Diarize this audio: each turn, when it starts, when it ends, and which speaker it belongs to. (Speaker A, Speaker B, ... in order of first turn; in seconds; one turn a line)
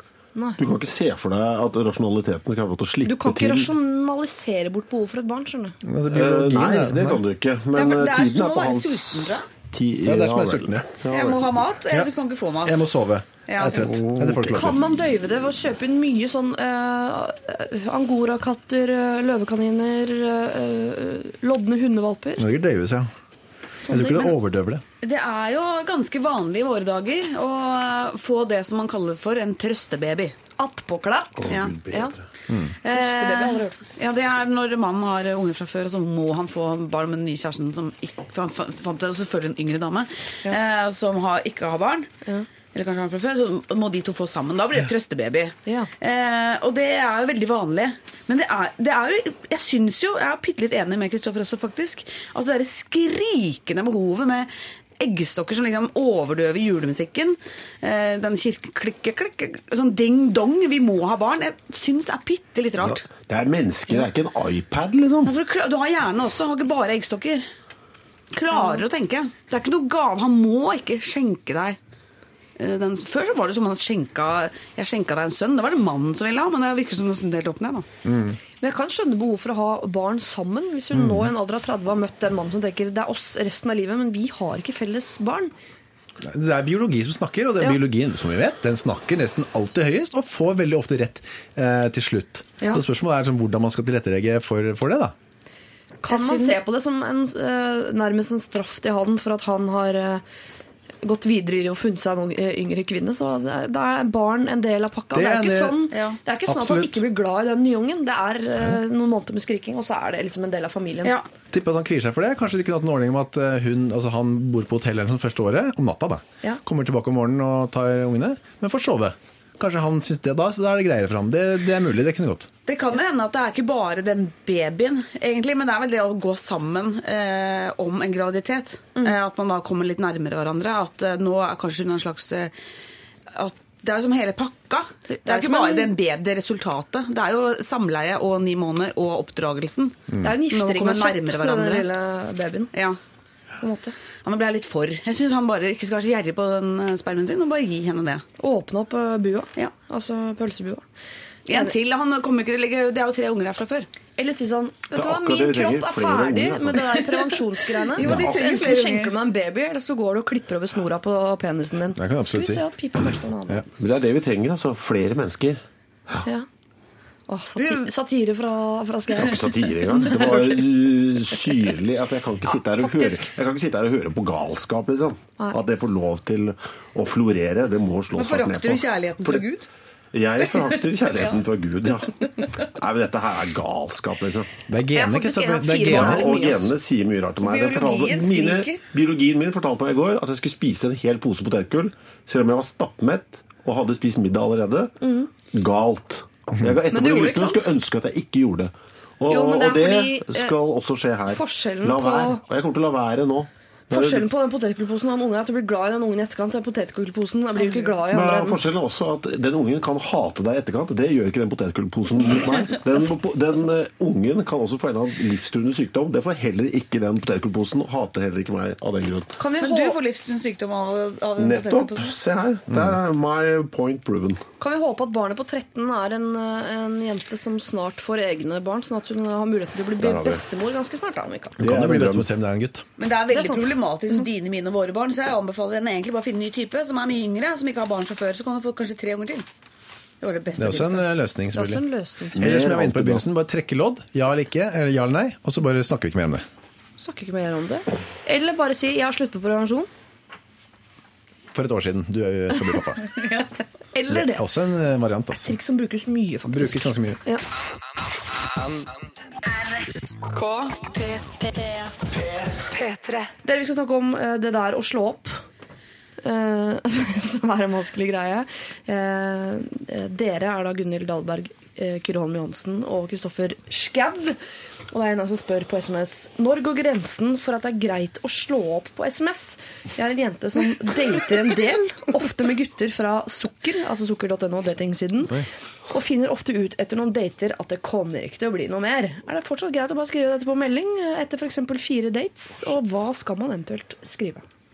Speaker A: 0.3-0.6
Speaker B: 0.6-3.7
Speaker A: 3.0-5.7
Speaker C: 5.8-7.2
Speaker B: 6.1-11.6
Speaker D: 7.7-9.4
Speaker C: 10.0-10.9
Speaker D: 11.1-12.9
Speaker C: 12.6-14.8
Speaker D: 13.5-13.9
Speaker B: 13.7-14.8
Speaker A: 14.5-22.5
Speaker C: 22.4-23.1
Speaker A: 23.8-24.3
Speaker C: 23.9-24.8
Speaker D: 25.0-30.3
Speaker A: 30.6-32.1
Speaker B: 31.4-32.2
Speaker D: 31.5-31.7
Speaker C: 32.5-32.7
Speaker D: 32.8-42.1
Speaker A: 32.8-34.0
Speaker D: 42.7-63.1
Speaker B: 62.8-65.3
Speaker D: 65.2-67.5
Speaker D: 68.3-71.8
Speaker A: 68.5-68.8
Speaker D: 72.6-77.8
Speaker C: 78.0-78.4
Speaker A: 78.6-85.5
Speaker C: 80.9-81.3
Speaker C: 86.2-95.1
Speaker A: 96.0-100.2
Speaker D: 96.1-96.6
Speaker A: 101.0-111.1
Speaker C: 105.1-105.8
Speaker D: 105.9-106.2
Speaker C: 106.5-107.0
Speaker C: 111.5-122.5
Speaker D: 122.7-132.5
Speaker D: 133.3-141.9
Speaker A: 135.2-135.9
Speaker C: 140.1-140.3
Speaker A: 140.2-142.7
Speaker D: 142.7-143.0
Speaker A: 143.6-143.9
Speaker D: 144.2-148.2
Speaker A: 148.4-150.8
Speaker D: 151.5-153.9
Speaker A: 154.2-164.0
Speaker B: 154.9-157.0
Speaker D: 157.9-159.1
Speaker C: 158.0-158.3
Speaker C: 161.9-162.7
Speaker B: 163.8-166.2
Speaker A: 167.3-170.7
Speaker D: 167.6-167.8
Speaker B: 169.1-179.5
Speaker A: 171.3-171.6
Speaker A: 172.8-173.3
Speaker D: 178.1-179.7
Speaker B: 180.1-184.5
Speaker D: 180.4-181.4
Speaker D: 182.1-182.7
Speaker C: 184.7-186.5
Speaker A: 184.9-186.7
Speaker B: 185.9-194.9
Speaker D: 187.4-188.8
Speaker A: 195.0-195.3
Speaker B: 195.5-204.3
Speaker A: 196.9-197.7
Speaker A: 199.3-200.5
Speaker A: 201.3-202.4
Speaker A: 203.9-208.6
Speaker B: 208.1-219.4
Speaker A: 219.4-220.0
Speaker D: 219.6-222.2
Speaker B: 221.4-224.4
Speaker A: 224.6-231.6
Speaker B: 230.0-230.4
Speaker B: 231.6-232.3
Speaker C: 231.6-232.8
Speaker D: 233.0-239.4
Speaker A: 233.3-234.2
Speaker D: 240.2-241.1
Speaker C: 240.6-241.8
Speaker A: 241.5-242.6
Speaker B: 242.3-243.2
Speaker C: 242.3-246.4
Speaker A: 247.0-249.9
Speaker C: 251.5-253.0
Speaker A: 253.9-254.4
Speaker C: 254.1-255.6
Speaker A: 255.4-257.4
Speaker C: 256.5-257.2
Speaker E: 260.3-263.3
Speaker A: 263.4-265.4
Speaker A: 266.2-274.4
Speaker A: 274.9-294.4